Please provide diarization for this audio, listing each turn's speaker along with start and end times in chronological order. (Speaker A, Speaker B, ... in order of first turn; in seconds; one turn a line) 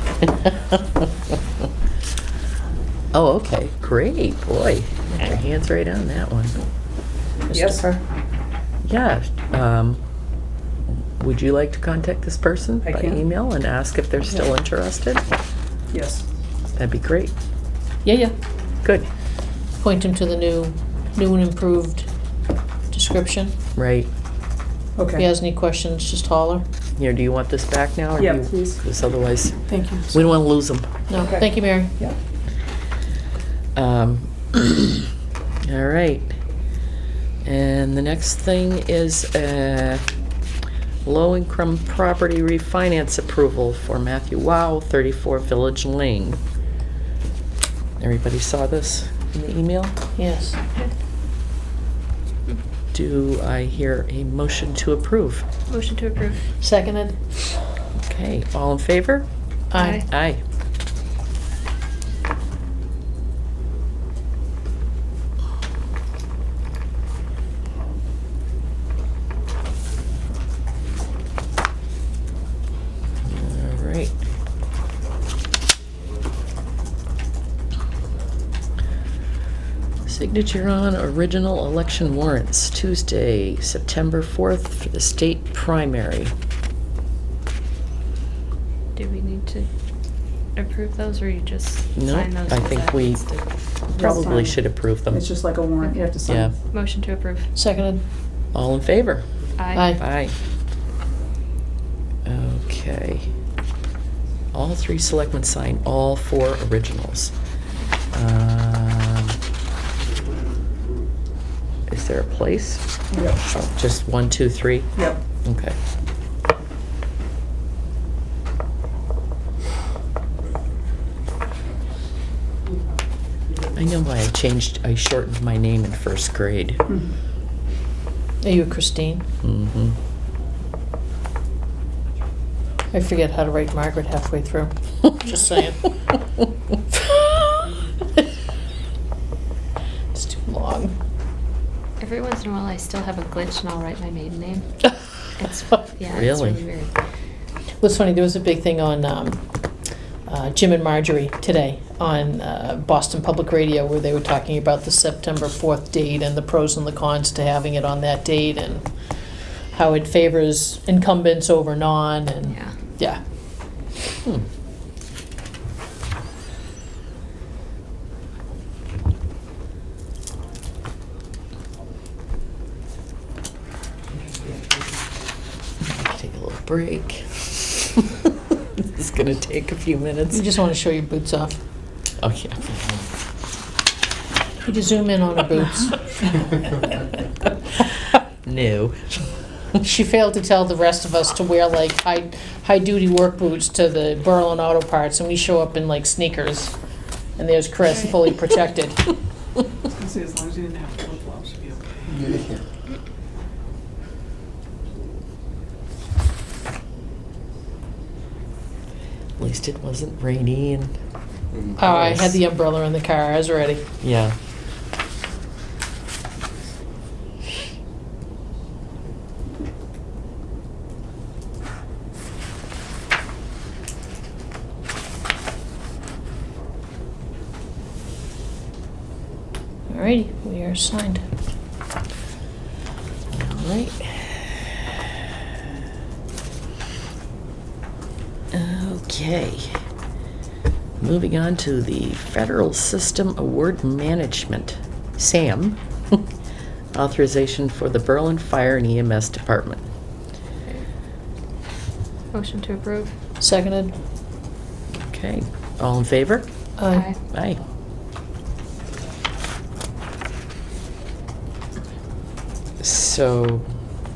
Speaker A: 0.2-1.1
Speaker A: 3.1-6.6
Speaker B: 7.5-8.0
Speaker C: 7.5-8.0
Speaker A: 8.9-10.0
Speaker A: 11.2-15.2
Speaker B: 12.8-13.2
Speaker B: 15.9-16.2
Speaker A: 16.8-17.3
Speaker C: 18.0-18.3
Speaker C: 19.8-22.1
Speaker C: 22.9-23.6
Speaker A: 23.8-24.1
Speaker B: 25.0-25.3
Speaker C: 25.2-26.6
Speaker A: 27.0-30.9
Speaker B: 28.2-28.8
Speaker B: 29.7-30.3
Speaker C: 31.1-32.0
Speaker B: 31.2-32.2
Speaker A: 33.8-35.1
Speaker A: 35.6-36.4
Speaker A: 37.4-40.0
Speaker A: 41.0-46.4
Speaker A: 48.0-50.0
Speaker C: 50.2-50.6
Speaker A: 52.9-55.5
Speaker D: 55.7-56.4
Speaker C: 56.6-57.2
Speaker A: 58.0-59.3
Speaker C: 59.7-60.0
Speaker D: 59.8-60.0
Speaker A: 60.0-60.4
Speaker A: 73.2-74.2
Speaker A: 80.1-86.3
Speaker D: 89.0-89.7
Speaker D: 90.5-94.4
Speaker A: 92.0-93.2
Speaker A: 94.0-95.2
Speaker B: 94.0-96.5
Speaker A: 96.3-96.5
Speaker D: 96.7-97.5
Speaker C: 97.5-98.0
Speaker A: 98.5-99.3
Speaker D: 99.6-99.9
Speaker C: 99.7-100.0
Speaker A: 99.9-100.4
Speaker A: 102.2-103.3
Speaker A: 104.5-107.3
Speaker A: 108.1-109.4
Speaker A: 111.9-112.8
Speaker B: 113.1-113.4
Speaker A: 113.5-115.8
Speaker A: 123.8-126.8
Speaker C: 128.4-129.3
Speaker A: 129.4-130.0
Speaker C: 132.9-135.9
Speaker C: 140.1-140.9
Speaker D: 142.0-144.7
Speaker D: 145.4-146.9
Speaker A: 146.1-146.6
Speaker C: 147.8-149.4
Speaker C: 150.3-158.9
Speaker C: 159.7-163.2
Speaker A: 175.8-178.3
Speaker A: 178.8-180.5
Speaker C: 180.3-181.6
Speaker A: 182.2-183.0
Speaker C: 184.6-186.4
Speaker A: 188.4-189.2
Speaker C: 189.8-196.8
Speaker C: 197.4-199.1
Speaker B: 199.9-202.3
Speaker A: 209.4-210.9
Speaker C: 211.8-213.8
Speaker A: 211.8-212.4
Speaker A: 214.0-214.4
Speaker C: 229.9-231.2
Speaker A: 233.3-234.7
Speaker A: 238.5-239.8
Speaker A: 241.0-246.2
Speaker A: 246.9-249.8
Speaker D: 252.3-253.2
Speaker C: 253.4-253.9
Speaker A: 255.0-256.5
Speaker C: 256.8-257.1
Speaker D: 256.9-257.2
Speaker A: 257.3-257.6
Speaker A: 262.8-263.7